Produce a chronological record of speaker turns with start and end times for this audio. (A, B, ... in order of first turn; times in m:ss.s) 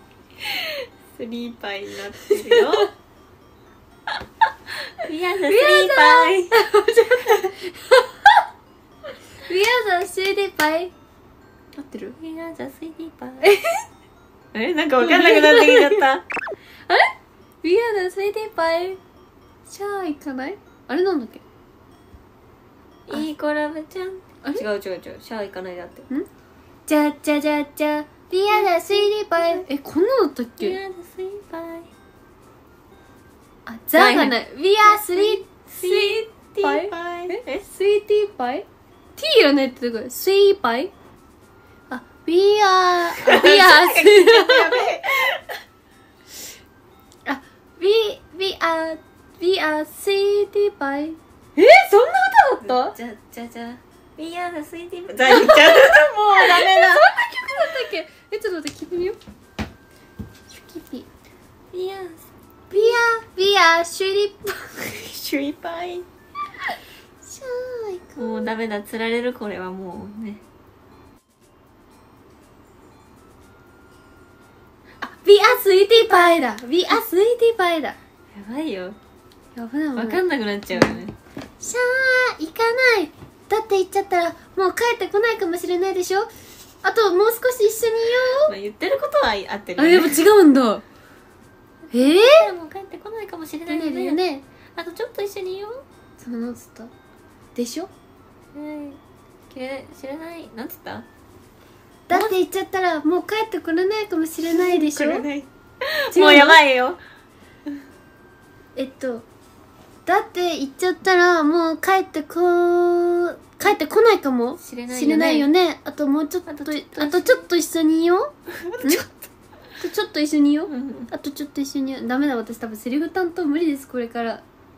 0:00.4-0:02.9 A
0:05.0-0:06.6 A
0:05.5-0:08.4 B
0:09.4-0:10.9 B
0:11.8-0:12.2 B
0:12.2-0:13.5 A
0:13.4-0:13.8 B
0:14.5-0:16.2 A
0:15.0-0:16.0 B
0:17.6-0:19.0 B
0:19.7-0:21.4 B
0:23.1-0:26.1 A
0:26.9-0:30.8 B
0:28.5-0:29.6 A
0:30.6-0:31.9 A
0:33.7-0:38.7 B
0:34.0-0:37.7 A
0:39.2-0:40.9 B
0:41.9-0:44.8 B
0:43.1-0:45.6 A
0:47.3-0:53.0 B
0:52.6-0:57.8 A
0:55.3-0:59.2 B
1:00.5-1:01.1 B
1:01.7-1:02.2 A
1:02.7-1:04.9 B
1:04.8-1:06.1 A
1:07.2-1:08.5 B
1:08.2-1:10.4 A
1:15.0-1:18.0 B
1:18.3-1:19.0 A
1:19.6-1:21.0 B
1:20.0-1:21.2 A
1:21.6-1:26.3 B
1:26.8-1:28.5 B
1:28.4-1:30.2 A
1:29.8-1:30.8 B
1:31.9-1:34.2 A
1:31.9-1:32.5 B
1:33.7-1:34.5 B
1:34.8-1:35.8 A
1:36.2-1:36.9 B
1:37.6-1:37.9 B
1:38.5-1:39.0 A
1:39.5-1:41.1 A
1:42.1-1:45.3 B
1:42.1-1:42.4 A
1:44.5-1:47.0 A
1:46.1-1:46.6 B
1:48.8-1:49.3 B
1:50.1-1:59.0 B
1:54.6-1:55.5 A
1:56.5-1:57.4 A
1:58.6-1:59.1 A
1:59.8-2:04.4 B
2:00.7-2:01.1 A